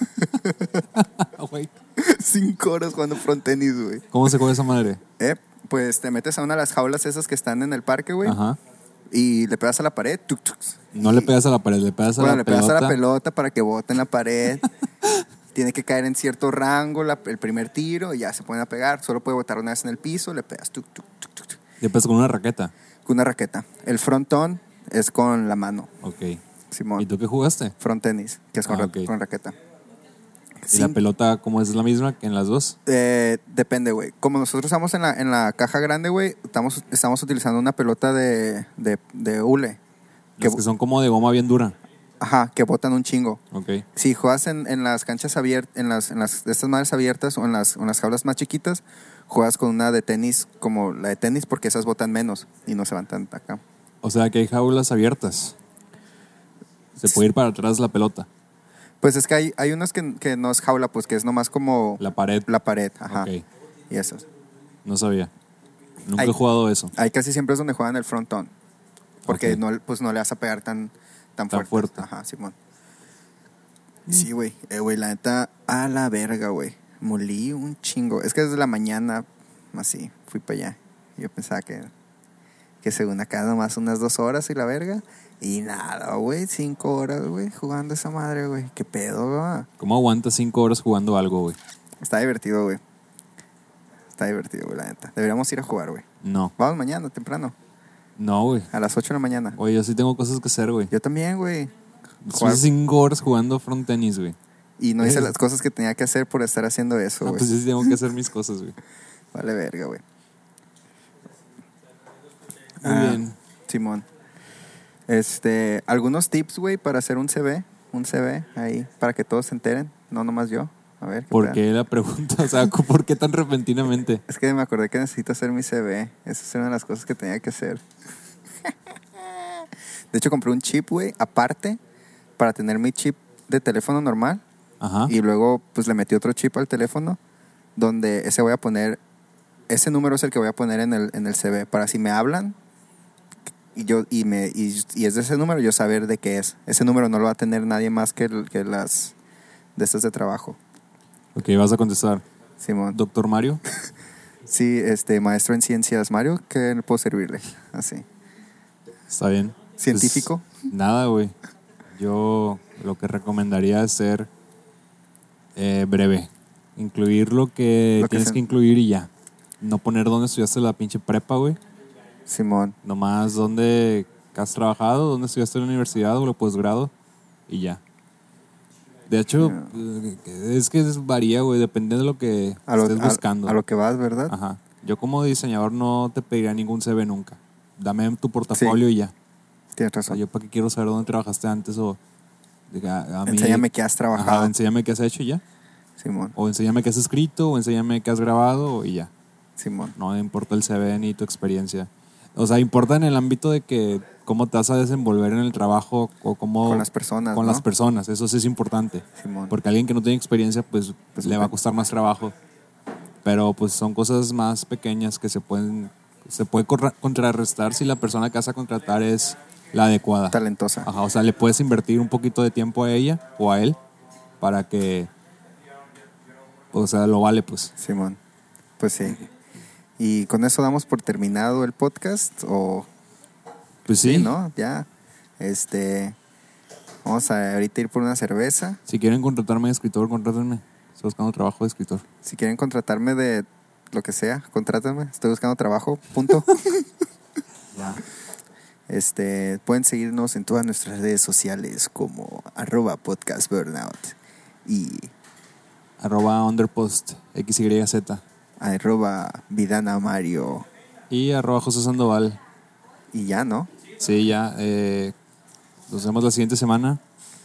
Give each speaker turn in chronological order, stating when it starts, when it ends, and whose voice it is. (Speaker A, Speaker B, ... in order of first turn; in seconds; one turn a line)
Speaker A: 0.2-0.9
Speaker B: 0.9-1.8
Speaker A: 2.0-4.1
Speaker B: 4.1-5.0
Speaker A: 5.2-8.4
Speaker B: 8.2-8.6
Speaker A: 9.1-11.3
Speaker B: 10.9-13.0
Speaker A: 12.2-14.7
Speaker A: 15.6-21.6
Speaker B: 21.8-22.7
Speaker A: 23.1-25.9
Speaker B: 26.0-26.4
Speaker A: 26.7-27.1
Speaker B: 27.0-27.8
Speaker A: 27.8-29.6
Speaker B: 28.7-29.1
Speaker A: 30.6-31.0
Speaker B: 30.7-32.8
Speaker A: 32.9-39.8
Speaker B: 40.4-41.8
Speaker A: 42.2-43.4
Speaker B: 43.5-43.9
Speaker A: 44.0-53.6
Speaker B: 54.0-55.6
Speaker B: 57.0-58.3
Speaker A: 59.0-63.3
Speaker B: 62.0-62.5
Speaker B: 63.1-63.4
Speaker A: 63.9-64.2
Speaker B: 64.8-65.3
Speaker B: 66.0-66.9
Speaker A: 66.9-68.5
Speaker A: 69.3-72.5
Speaker B: 69.3-69.6
Speaker B: 71.5-72.0
Speaker A: 74.1-81.9
Speaker A: 82.8-89.7
Speaker B: 89.8-91.6
Speaker A: 92.0-92.8
Speaker A: 94.2-96.0
Speaker B: 96.2-96.5
Speaker A: 96.6-97.5
Speaker B: 98.2-98.7
Speaker A: 98.7-99.6
Speaker B: 99.5-100.9
Speaker A: 100.9-101.7
Speaker B: 102.2-104.4
Speaker A: 102.3-102.7
Speaker A: 104.8-108.0
Speaker B: 105.0-105.3
Speaker B: 107.2-108.8
Speaker A: 109.3-110.0
Speaker B: 112.8-113.4
Speaker A: 112.8-114.0
Speaker A: 115.1-121.6
Speaker B: 121.3-124.2
Speaker A: 124.3-127.8
Speaker A: 128.7-131.8
Speaker A: 132.4-134.4
Speaker B: 134.8-135.1
Speaker A: 135.1-137.2
Speaker A: 137.8-139.0
Speaker A: 139.7-142.6
Speaker A: 143.8-149.1
Speaker A: 149.8-150.6
Speaker B: 151.3-152.2
Speaker A: 152.6-153.0
Speaker B: 152.9-153.6
Speaker A: 154.5-158.1
Speaker B: 159.1-161.3
Speaker A: 159.8-160.6
Speaker B: 161.9-164.3
Speaker B: 165.6-171.6
Speaker A: 168.0-168.4
Speaker A: 172.3-172.8
Speaker B: 172.8-176.9
Speaker B: 177.5-177.8
Speaker B: 179.1-183.6
Speaker A: 179.4-179.7
Speaker A: 182.7-184.3
Speaker B: 184.3-189.1
Speaker A: 189.8-190.2
Speaker B: 190.1-192.0
Speaker B: 192.7-195.4
Speaker A: 193.3-194.5
Speaker A: 196.0-196.3
Speaker B: 196.3-199.1
Speaker A: 199.6-200.0
Speaker B: 200.0-212.3
Speaker A: 206.6-207.7
Speaker A: 209.2-209.6
Speaker A: 211.2-211.5
Speaker B: 213.2-223.8
Speaker A: 220.3-220.9
Speaker B: 224.4-225.1
Speaker B: 226.7-227.7
Speaker A: 227.8-228.2
Speaker A: 228.8-229.2
Speaker A: 230.0-232.9
Speaker B: 233.9-234.3
Speaker A: 234.0-234.9
Speaker A: 235.4-236.2
Speaker A: 237.1-238.8
Speaker B: 238.9-242.1
Speaker A: 242.2-246.9
Speaker B: 247.7-248.0
Speaker A: 248.9-255.1
Speaker B: 256.0-258.2
Speaker A: 258.6-260.7
Speaker B: 261.1-262.4
Speaker A: 263.1-263.7
Speaker B: 264.0-265.1
Speaker B: 265.9-267.0